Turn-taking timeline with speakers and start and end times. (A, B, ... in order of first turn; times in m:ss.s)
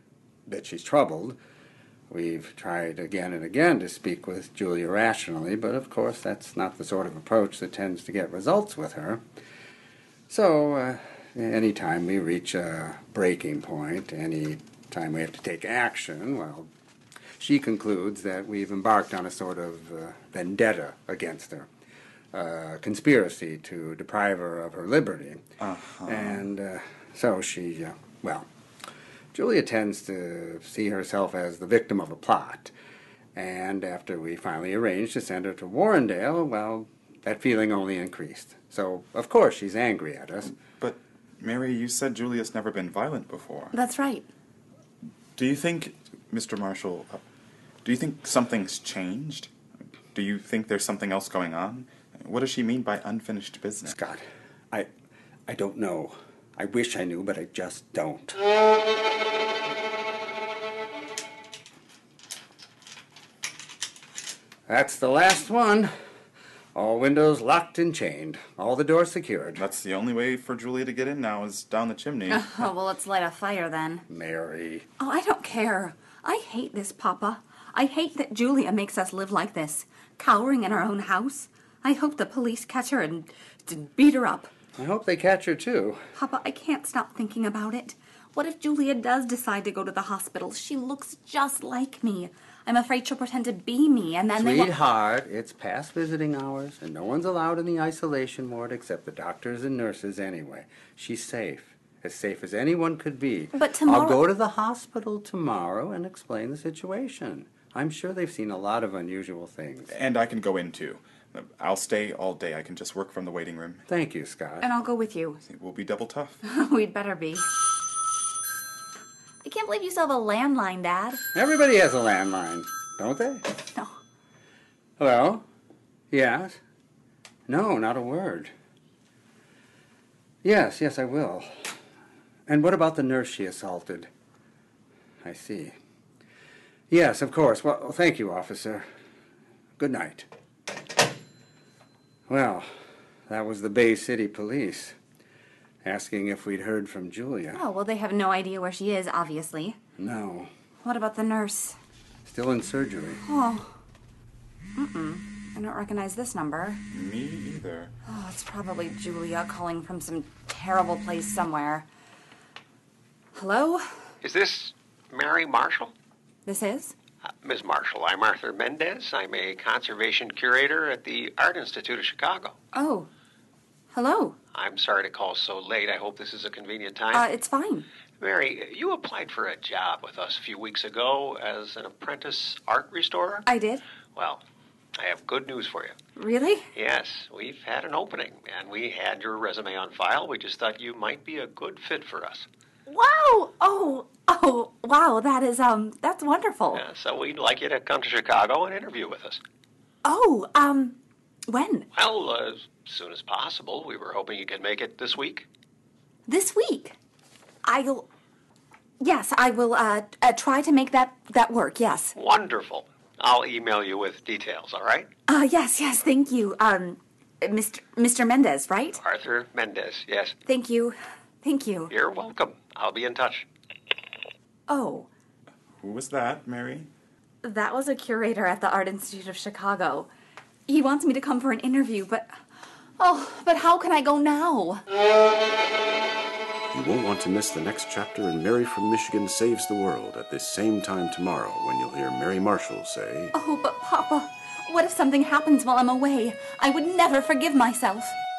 0:00.5-0:01.4 A
0:02.1-0:09.2 A
0:10.3-0:16.7 A
0:17.4-0:21.7 A
0:22.3-0:25.4 A
0:25.6-0:26.4 B
0:26.0-0:28.5 A
0:29.3-0:32.7 A
0:33.4-0:40.5 A
0:40.7-0:43.7 B
0:43.7-0:44.3 C
0:45.4-0:47.2 B
0:47.8-0:49.5 B
0:50.1-0:54.0 B
0:53.8-0:54.9 A
0:55.5-0:58.4 A
1:04.7-1:05.9 A
1:06.8-1:09.6 A
1:09.6-1:12.7 B
1:12.3-1:14.0 C
1:14.1-1:14.9 A
1:15.0-1:24.5 C
1:24.8-1:26.0 A
1:26.2-1:34.7 C
1:34.3-1:49.9 A
1:43.5-1:44.2 C
1:49.9-1:53.8 B
1:53.9-1:54.7 A
1:54.6-1:55.4 C
1:55.4-1:56.4 B
1:56.4-1:57.5 C
1:59.4-2:01.2 C
2:01.3-2:03.4 A
2:05.0-2:05.4 A
2:06.1-2:06.6 A
2:07.5-2:08.5 A
2:10.4-2:11.7 A
2:12.5-2:14.1 A
2:15.2-2:15.8 A
2:16.9-2:18.8 A
2:19.8-2:20.3 A
2:22.3-2:22.7 A
2:23.3-2:25.0 A
2:25.8-2:27.6 A
2:27.5-2:29.8 C
2:30.0-2:30.5 A
2:30.8-2:31.8 C
2:32.2-2:33.2 A
2:33.2-2:33.7 C
2:34.8-2:36.8 C
2:36.9-2:37.9 B
2:38.1-2:41.9 C
2:43.4-2:43.9 C
2:44.2-2:45.9 D
2:46.4-2:46.9 C
2:47.4-2:52.6 D
2:52.7-2:53.1 C
2:53.9-2:54.4 C
2:54.5-2:57.3 D
2:57.1-2:57.9 C
2:58.2-3:03.5 D
3:03.5-3:03.8 C
3:04.2-3:04.4 D
3:05.0-3:06.0 D
3:06.2-3:06.7 C
3:06.7-3:12.5 D
3:12.9-3:16.8 C
3:16.7-3:19.4 D
3:20.0-3:21.0 C
3:21.5-3:21.9 C
3:22.0-3:25.5 D
3:26.3-3:27.0 C
3:27.6-3:28.1 C
3:29.0-3:32.1 C
3:32.2-3:35.1 D
3:35.3-3:39.0 C
3:39.0-3:40.4 D
3:40.5-3:41.9 C
3:41.9-3:43.4 D
3:44.7-3:45.1 C
3:45.8-3:46.9 B
3:47.4-3:50.1 C
3:50.7-3:52.4 C
3:53.0-3:54.8 C
3:56.7-4:03.3 E
4:03.3-4:08.2 C